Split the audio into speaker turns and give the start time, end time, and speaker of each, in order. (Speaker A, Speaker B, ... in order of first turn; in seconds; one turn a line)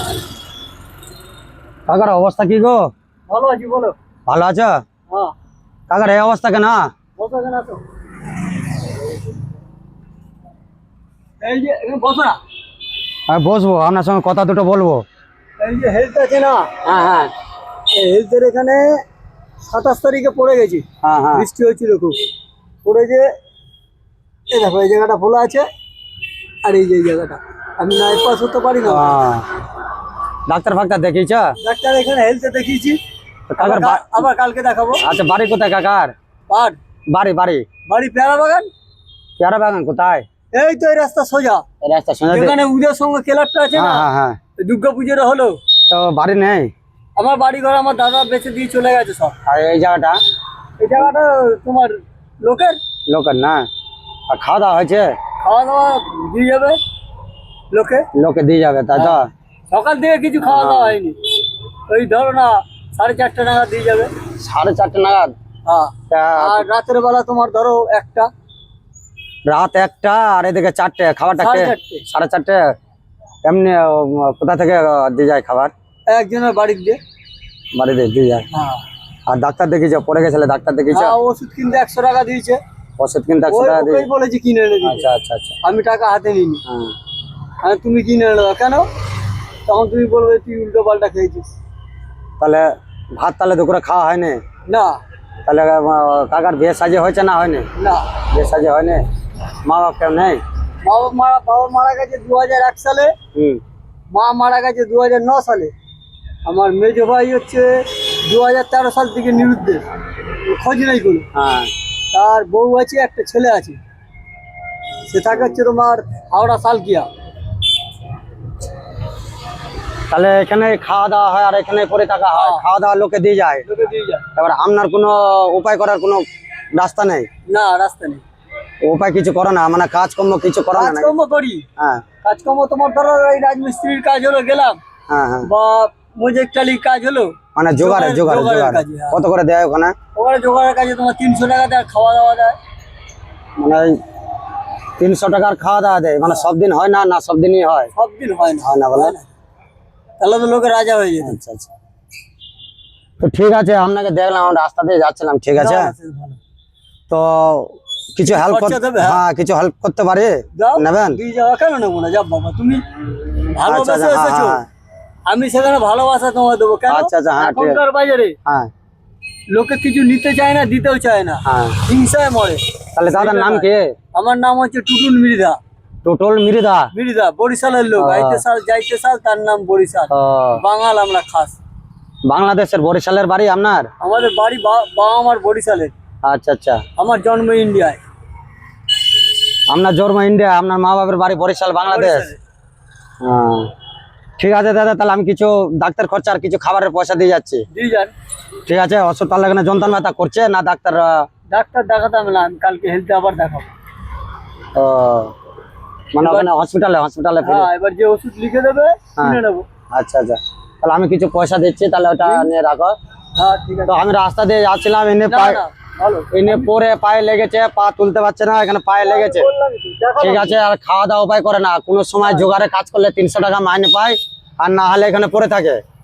Speaker A: 1.9-2.9
Speaker B: 3.3-3.9
Speaker A: 4.3-4.8
Speaker A: 5.9-6.9
Speaker B: 7.2-7.8
Speaker B: 11.4-12.4
Speaker A: 13.3-15.0
Speaker B: 15.6-16.8
Speaker A: 16.8-17.3
Speaker B: 17.9-19.0
Speaker B: 19.7-22.2
Speaker A: 21.0-21.5
Speaker B: 22.8-23.3
Speaker B: 24.5-25.7
Speaker B: 26.6-29.1
Speaker A: 28.8-29.5
Speaker A: 30.4-31.5
Speaker B: 31.6-33.0
Speaker A: 33.5-34.2
Speaker B: 33.6-35.0
Speaker A: 35.0-36.1
Speaker B: 36.5-36.8
Speaker A: 37.1-37.6
Speaker B: 37.9-38.7
Speaker A: 39.4-40.2
Speaker B: 40.5-41.6
Speaker A: 41.8-42.5
Speaker B: 42.3-45.6
Speaker A: 43.7-44.4
Speaker A: 45.9-46.7
Speaker B: 47.1-49.4
Speaker A: 49.5-50.2
Speaker B: 50.8-52.8
Speaker A: 53.1-53.7
Speaker A: 54.3-55.1
Speaker B: 55.4-56.8
Speaker B: 57.7-58.1
Speaker A: 58.1-59.3
Speaker B: 59.7-61.2
Speaker A: 60.4-61.0
Speaker B: 61.9-64.1
Speaker A: 64.4-65.3
Speaker B: 65.7-68.3
Speaker A: 66.1-66.7
Speaker A: 69.5-72.7
Speaker B: 71.4-72.0
Speaker A: 73.4-75.7
Speaker B: 76.1-77.0
Speaker A: 77.7-78.5
Speaker B: 78.5-78.8
Speaker A: 79.3-81.1
Speaker B: 80.9-82.6
Speaker A: 83.0-84.1
Speaker B: 83.5-85.1
Speaker A: 84.8-85.6
Speaker B: 85.6-86.6
Speaker A: 86.7-86.9
Speaker B: 87.6-88.9
Speaker B: 89.7-91.5
Speaker A: 92.4-94.4
Speaker B: 94.7-95.0
Speaker A: 95.5-97.7
Speaker B: 97.8-98.2
Speaker A: 98.3-99.0
Speaker A: 99.6-100.4
Speaker B: 100.8-103.1
Speaker A: 103.3-103.6
Speaker B: 104.1-105.7
Speaker B: 106.4-109.8
Speaker B: 110.4-111.3
Speaker A: 111.3-111.7
Speaker B: 112.1-113.8
Speaker B: 115.1-117.1
Speaker A: 115.3-115.6
Speaker A: 120.1-123.6
Speaker B: 122.3-122.6
Speaker B: 123.6-124.2
Speaker A: 124.3-126.2
Speaker A: 126.7-127.3
Speaker B: 127.5-128.2
Speaker A: 128.8-131.1
Speaker B: 130.7-131.7
Speaker A: 131.8-132.0
Speaker B: 132.2-134.8
Speaker A: 135.1-135.5
Speaker B: 135.4-139.2
Speaker A: 137.5-139.9
Speaker B: 140.1-142.6
Speaker A: 143.6-144.0
Speaker A: 145.0-147.9
Speaker B: 147.9-149.3
Speaker A: 148.6-149.2
Speaker B: 150.2-151.3
Speaker A: 151.2-151.7
Speaker A: 153.2-155.9
Speaker B: 155.6-156.4
Speaker A: 157.1-161.2
Speaker B: 158.2-159.2
Speaker B: 160.5-162.8
Speaker B: 163.5-164.6
Speaker A: 163.6-164.7
Speaker B: 165.3-168.4
Speaker A: 166.9-167.8
Speaker B: 169.5-175.6
Speaker A: 171.4-171.8
Speaker A: 172.9-173.9
Speaker A: 176.0-176.9
Speaker B: 176.9-181.6
Speaker A: 178.0-178.4
Speaker A: 180.1-180.6
Speaker A: 182.3-183.9
Speaker B: 184.0-185.9
Speaker A: 186.2-186.8
Speaker B: 186.9-188.0
Speaker A: 189.7-192.3
Speaker B: 191.8-192.4
Speaker A: 193.2-193.7
Speaker A: 194.4-197.7
Speaker B: 197.7-198.1
Speaker A: 198.7-201.2
Speaker B: 201.5-203.7
Speaker A: 204.7-205.3
Speaker A: 206.1-207.7
Speaker B: 206.2-206.5
Speaker B: 207.4-209.7
Speaker A: 209.9-212.9
Speaker B: 212.2-212.5
Speaker B: 213.3-214.0
Speaker A: 213.9-215.6
Speaker B: 215.3-216.7
Speaker A: 216.3-219.5
Speaker B: 219.0-220.6
Speaker A: 220.2-225.8
Speaker B: 222.2-222.5